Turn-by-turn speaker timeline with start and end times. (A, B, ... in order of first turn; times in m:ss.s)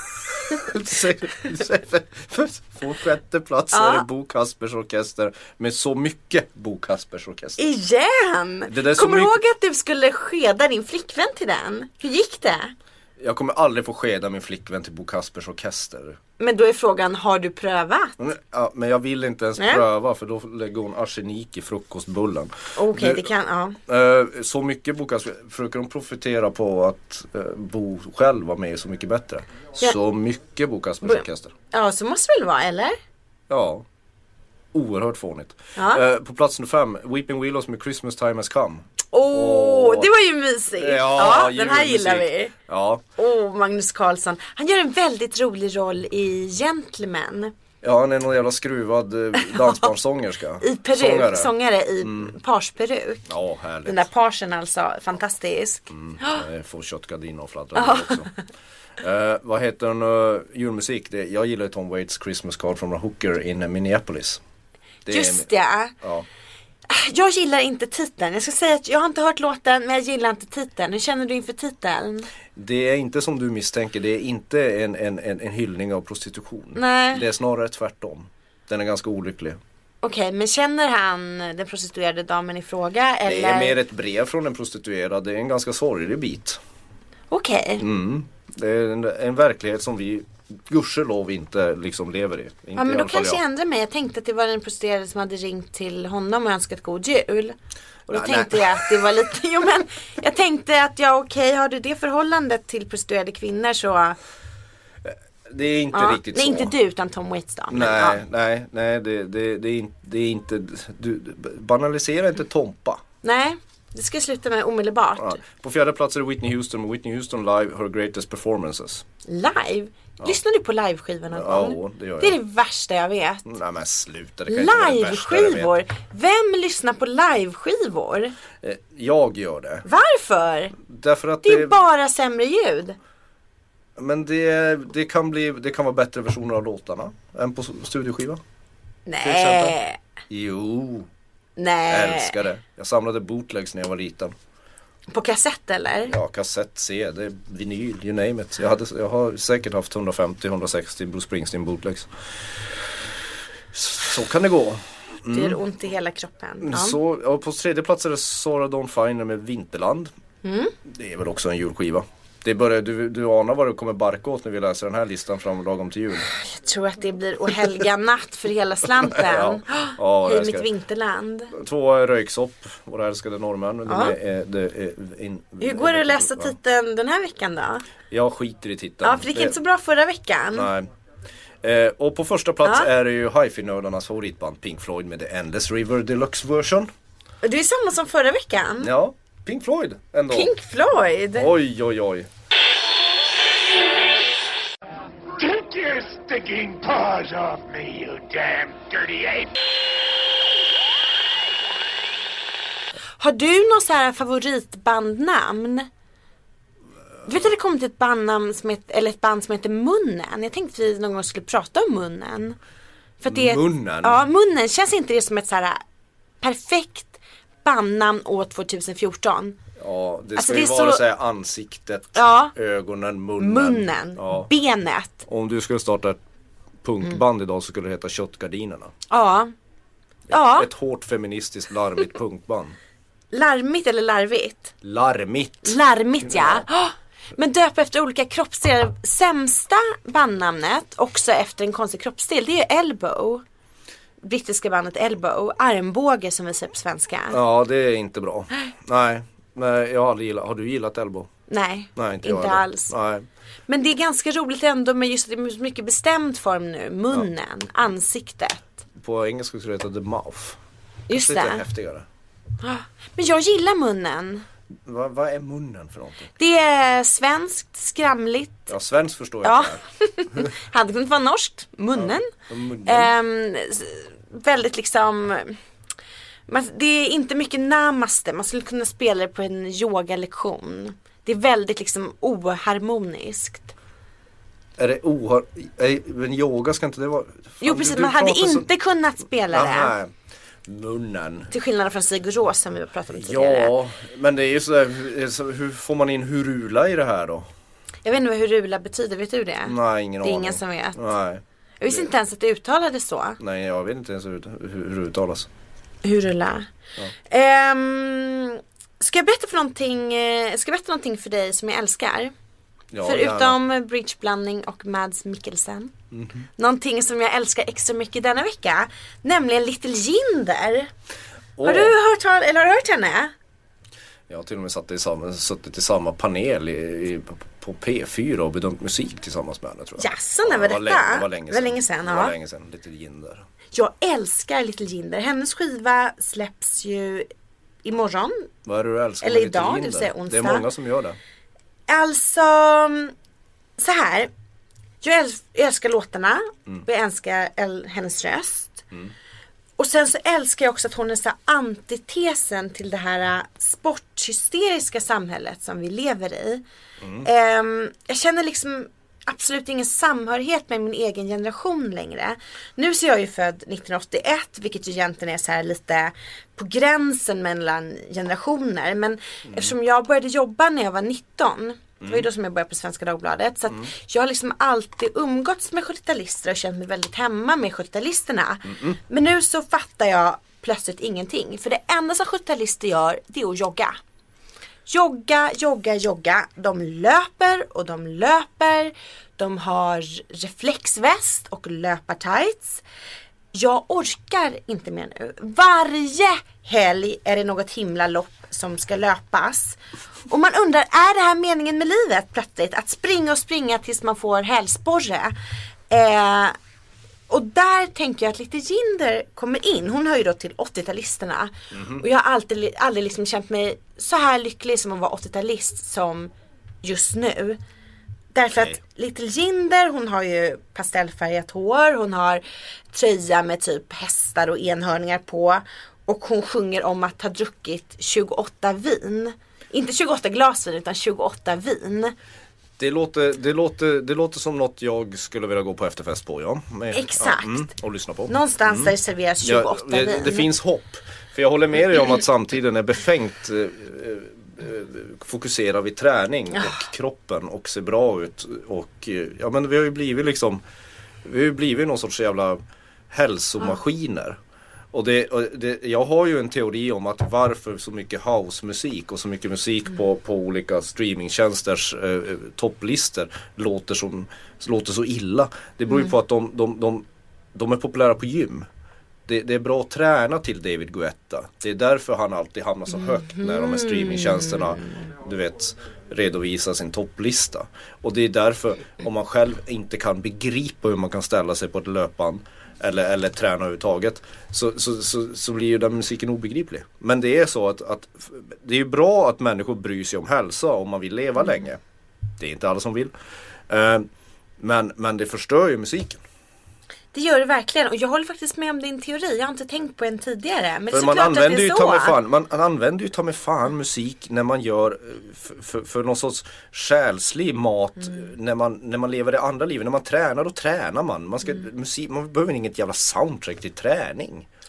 0:00.3-0:07.6 A
0:03.7-0:04.0 B
0:07.6-0:12.7 B
0:08.7-0:09.4 A
0:13.2-0:16.2 A
0:16.4-0:18.2 B
0:18.2-0:23.3 A
0:19.6-0:19.8 B
0:22.7-0:23.8 B
0:23.9-0:31.5 A
0:31.0-0:33.0 B
0:33.5-0:33.8 A
0:34.7-0:40.1 A
0:35.8-0:36.0 B
0:39.1-0:42.5 B
0:40.8-0:43.0 A
0:43.2-0:47.5 B
0:47.8-0:52.3 A
0:49.5-0:49.8 B
0:50.6-0:53.2 B
0:53.3-0:54.1 A
0:53.8-0:56.4 B
0:55.9-0:58.3 A
0:57.8-0:58.3 B
0:59.0-1:04.4 A
1:05.0-1:05.5 A
1:05.1-1:06.0 B
1:06.0-1:06.2 A
1:06.9-1:12.3 B
1:12.6-1:19.6 A
1:16.7-1:17.2 B
1:20.0-1:23.8 B
1:23.2-1:26.6 A
1:27.3-1:27.8 B
1:27.8-1:33.4 A
1:32.8-1:37.6 B
1:38.1-1:44.2 B
1:38.1-1:39.0 A
1:45.0-1:46.7 A
1:45.9-1:48.2 B
1:47.7-1:53.0 A
1:53.2-1:55.4 B
1:55.2-1:59.0 A
1:59.2-2:03.4 B
2:01.3-2:02.4 A
2:03.4-2:05.7 A
2:04.5-2:08.3 B
2:08.6-2:09.8 A
2:09.8-2:10.7 B
2:10.8-2:11.8 A
2:11.4-2:13.0 B
2:14.0-2:18.4 A
2:19.1-2:20.0 B
2:19.2-2:19.8 A
2:20.3-2:21.1 A
2:21.6-2:22.4 B
2:21.9-2:24.3 A
2:25.1-2:26.1 B
2:26.1-2:32.1 A
2:33.7-2:35.6 A
2:35.3-2:37.0 B
2:36.6-2:40.1 A
2:40.4-2:40.7 B
2:40.8-2:46.3 A
2:46.3-2:51.5 B
2:49.0-2:50.7 A
2:51.5-2:56.5 A
2:53.9-2:54.2 B
2:55.6-2:57.8 B
2:58.1-2:59.6 A
2:59.0-3:00.7 B
3:00.5-3:00.9 A
3:01.6-3:06.9 A
3:02.6-3:02.9 B
3:07.4-3:08.9 B
3:08.8-3:10.5 A
3:10.3-3:11.5 B
3:11.3-3:12.3 A
3:15.4-3:19.5 C
3:23.2-3:25.9 B
3:27.2-3:32.6 B
3:33.2-3:35.8 B
3:33.2-3:34.2 A
3:36.4-3:39.6 B
3:39.8-3:44.5 A
3:40.4-3:41.0 B
3:42.1-3:42.5 B
3:43.4-3:45.2 B
3:45.3-3:46.2 A
3:46.8-3:48.9 A
3:49.1-3:49.5 B
3:50.3-3:52.8 A
3:50.3-3:50.7 B
3:53.3-3:54.7 B
3:54.8-3:56.6 A
3:55.6-4:03.4 B
4:04.2-4:07.4 B
4:07.3-4:11.3 A
4:11.5-4:12.9 B
4:12.0-4:13.3 A
4:13.7-4:18.8 B
4:18.9-4:20.6 A
4:21.1-4:21.6 B
4:21.1-4:22.0 A
4:22.6-4:24.4 B
4:24.8-4:26.3 A
4:26.4-4:28.7 B
4:28.7-4:29.8 A
4:29.4-4:32.3 B
4:32.0-4:33.1 A
4:32.8-4:35.6 B
4:36.5-4:43.7 B
4:44.8-4:48.7 A
4:47.6-4:49.9 B
4:49.5-4:50.1 A
4:50.6-4:51.5 A
4:51.5-4:53.7 B
4:53.1-4:57.5 A
4:58.0-5:01.0 B
4:59.6-5:02.1 A
5:01.8-5:03.4 B
5:03.4-5:05.5 A
5:06.0-5:06.7 B
5:07.2-5:12.3 B
5:12.9-5:13.6 A
5:13.0-5:15.9 B
5:16.1-5:16.5 A
5:16.6-5:20.9 B
5:21.6-5:21.9 A
5:21.6-5:23.3 B
5:24.3-5:33.4 A
5:30.0-5:32.3 B
5:33.7-5:37.3 B
5:37.8-5:38.5 B
5:38.6-5:41.2 A
5:39.2-5:40.6 B
5:41.9-5:43.1 B
5:43.8-5:44.3 B
5:45.0-5:48.8 B
5:49.8-5:56.6 B
5:57.0-5:57.3 A
5:57.2-6:24.0 B
6:09.5-6:09.7 A
6:18.7-6:18.9 A
6:24.9-6:32.8 B
6:33.5-6:39.8 B
6:40.3-6:45.3 B
6:45.9-6:46.6 B
6:47.3-6:56.3 B
6:51.7-6:52.0 A
6:56.8-6:57.6 B
6:58.3-7:12.1 B
7:12.8-7:30.6 A
7:16.9-7:17.7 B
7:18.3-7:20.5 B
7:31.2-7:34.4 A
7:34.9-7:48.6 A
7:49.3-8:11.8 A
7:53.4-7:54.5 B
8:12.4-8:13.1 A
8:13.7-8:14.0 A
8:14.6-8:16.2 A
8:17.1-8:22.2 B
8:20.9-8:34.4 A